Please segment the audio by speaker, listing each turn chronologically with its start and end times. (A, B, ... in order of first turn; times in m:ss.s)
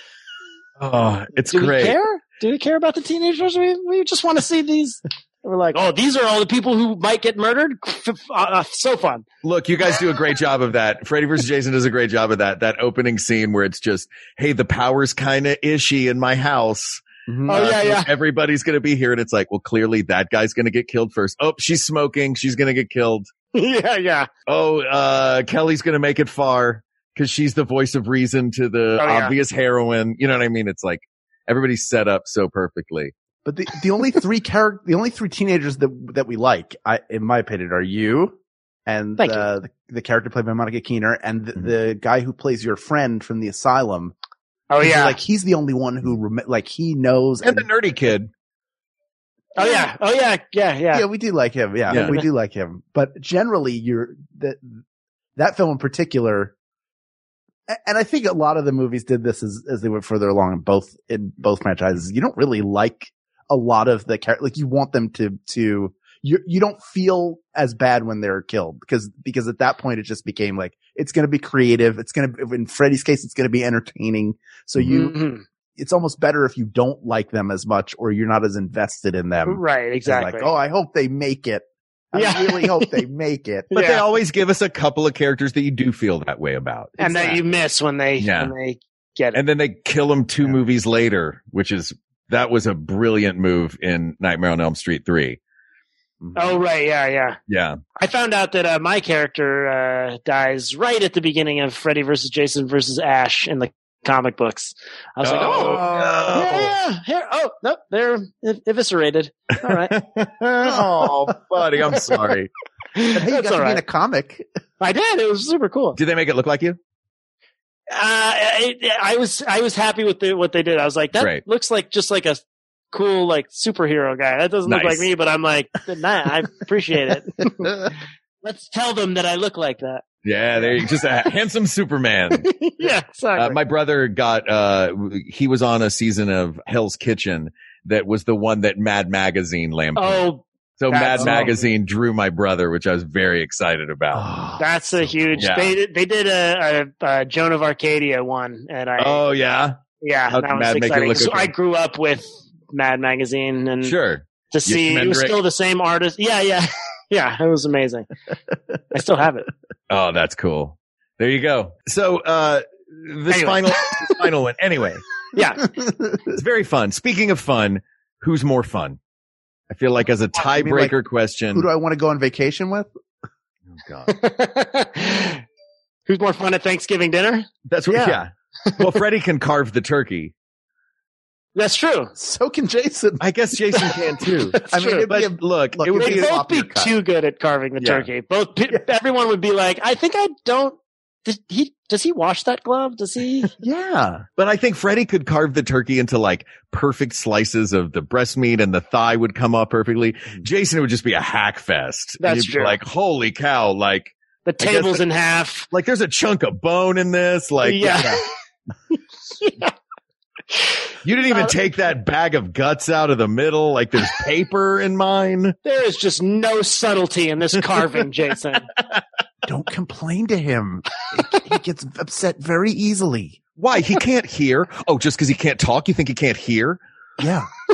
0:00.8-0:02.0 A
0:01.5-0:09.2 B
0:09.4-0:23.3 A
0:17.3-0:17.7 C
0:17.5-0:18.1 B
0:23.6-0:24.3 B
0:24.5-0:33.1 A
0:29.0-0:29.4 B
0:33.4-0:44.1 C
0:39.2-0:39.5 B
0:44.7-0:45.2 B
0:44.8-0:47.7 C
0:47.4-0:48.3 A
0:49.6-0:51.1 B
0:49.6-0:49.9 C
0:50.9-0:54.8 C
0:51.9-0:52.2 A
0:51.9-0:52.3 B
0:55.4-0:56.5 C
0:57.7-1:15.1 C
1:14.9-1:15.4 B
1:15.8-1:23.7 C
1:19.5-1:20.5 B
1:22.2-1:22.9 B
1:23.7-1:24.0 B
1:23.7-1:27.4 A
1:27.0-1:27.4 C
1:27.0-1:29.4 B
1:28.2-1:28.5 A
1:29.3-1:35.4 A
1:36.2-1:36.6 C
1:36.4-1:37.4 B
1:37.5-1:37.8 A
1:38.0-1:50.0 B
1:45.2-1:46.7 A
1:45.5-1:46.7 C
1:49.7-1:52.5 A
1:50.6-1:51.4 C
1:53.0-1:53.8 B
1:53.1-1:54.4 C
1:54.8-1:56.0 B
1:56.0-1:56.8 A
1:57.9-2:02.4 B
2:01.2-2:01.4 A
2:02.9-2:07.9 B
2:04.7-2:05.1 A
2:08.4-2:10.1 B
2:10.2-2:12.5 A
2:12.3-2:13.6 B
2:13.4-2:20.3 A
2:20.0-2:21.7 B
2:20.8-2:24.3 A
2:21.2-2:21.5 C
2:24.1-2:25.5 C
2:24.6-2:29.2 B
2:25.4-2:25.8 A
2:29.0-2:29.8 A
2:30.0-2:34.0 B
2:30.3-2:31.5 A
2:33.8-2:35.4 A
2:34.5-2:38.1 B
2:38.9-2:39.5 B
2:39.9-2:45.0 A
2:43.3-2:44.2 B
2:45.3-2:45.7 B
2:45.8-2:46.4 C
2:46.3-2:49.0 A
2:49.7-2:51.7 A
2:50.4-2:51.0 C
2:51.5-2:52.9 C
2:53.7-2:54.1 A
2:54.1-2:55.4 B
2:56.1-2:57.5 B
2:57.7-3:00.3 A
2:57.9-2:58.2 C
3:01.6-3:02.1 B
3:02.2-3:03.3 C
3:03.2-3:06.4 A
3:04.6-3:06.9 C
3:04.6-3:05.1 B
3:06.0-3:13.5 B
3:07.8-3:08.1 A
3:13.6-3:14.3 C
3:14.4-3:25.0 A
3:22.2-3:22.8 B
3:24.5-3:25.7 B
3:25.7-3:28.2 A
3:27.6-3:28.3 B
3:29.4-3:29.7 B
3:31.0-3:35.6 A
3:35.6-3:38.7 B
3:39.5-3:43.4 C
3:43.6-3:46.8 A
3:47.2-3:47.5 C